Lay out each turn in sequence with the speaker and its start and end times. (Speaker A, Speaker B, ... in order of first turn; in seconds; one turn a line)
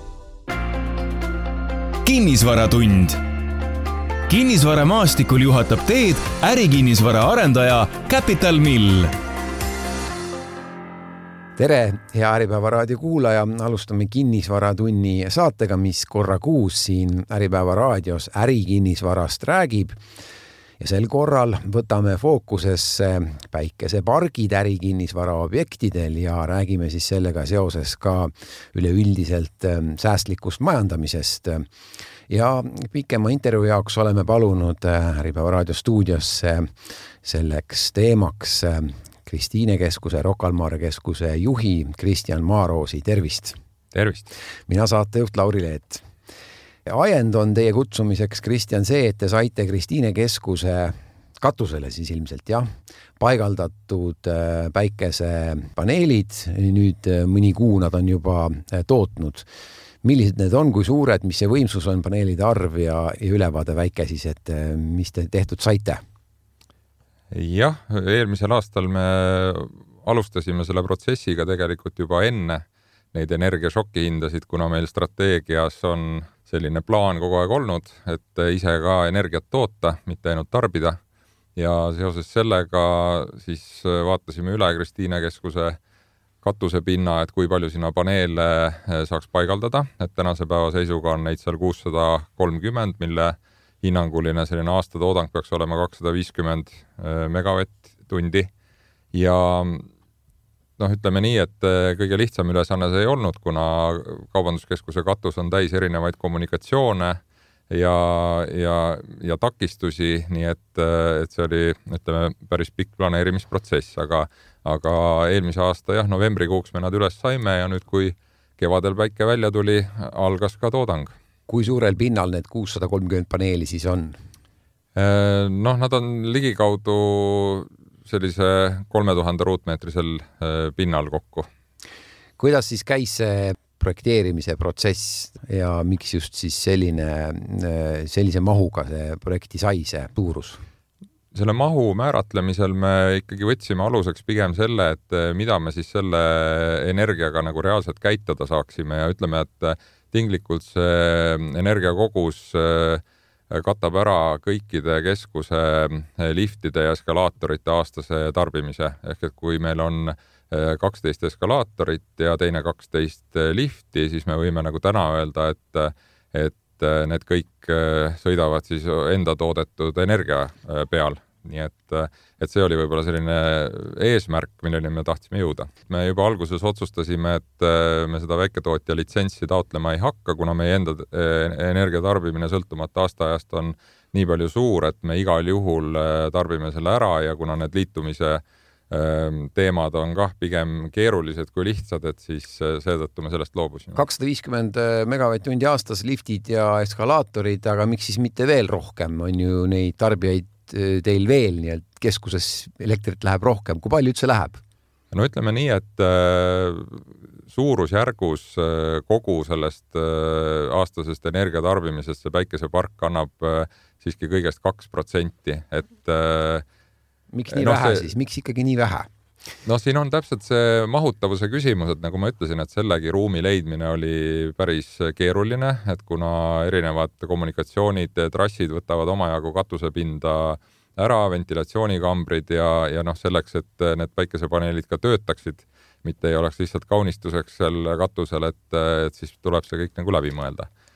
Speaker A: 2.0-3.2
Speaker A: 4.3-9.2
Speaker B: 11.6-20.0
Speaker B: 20.8-31.7
Speaker B: 32.3-36.7
Speaker B: 37.2-43.6
Speaker C: 43.9-44.3
Speaker B: 44.7-46.1
Speaker B: 46.9-59.5
Speaker B: 60.0-66.0
Speaker C: 67.3-81.0
Speaker C: 81.6-85.8
Speaker C: 86.4-98.5
Speaker C: 99.1-99.9
Speaker C: 100.8-121.1
Speaker B: 121.5-124.2
Speaker C: 125.0-131.5
Speaker B: 132.4-140.6
Speaker C: 141.3-194.0
Speaker B: 193.9-204.6
Speaker C: 205.1-216.6
Speaker B: 217.3-219.1
Speaker C: 217.5-218.1
Speaker C: 219.7-240.7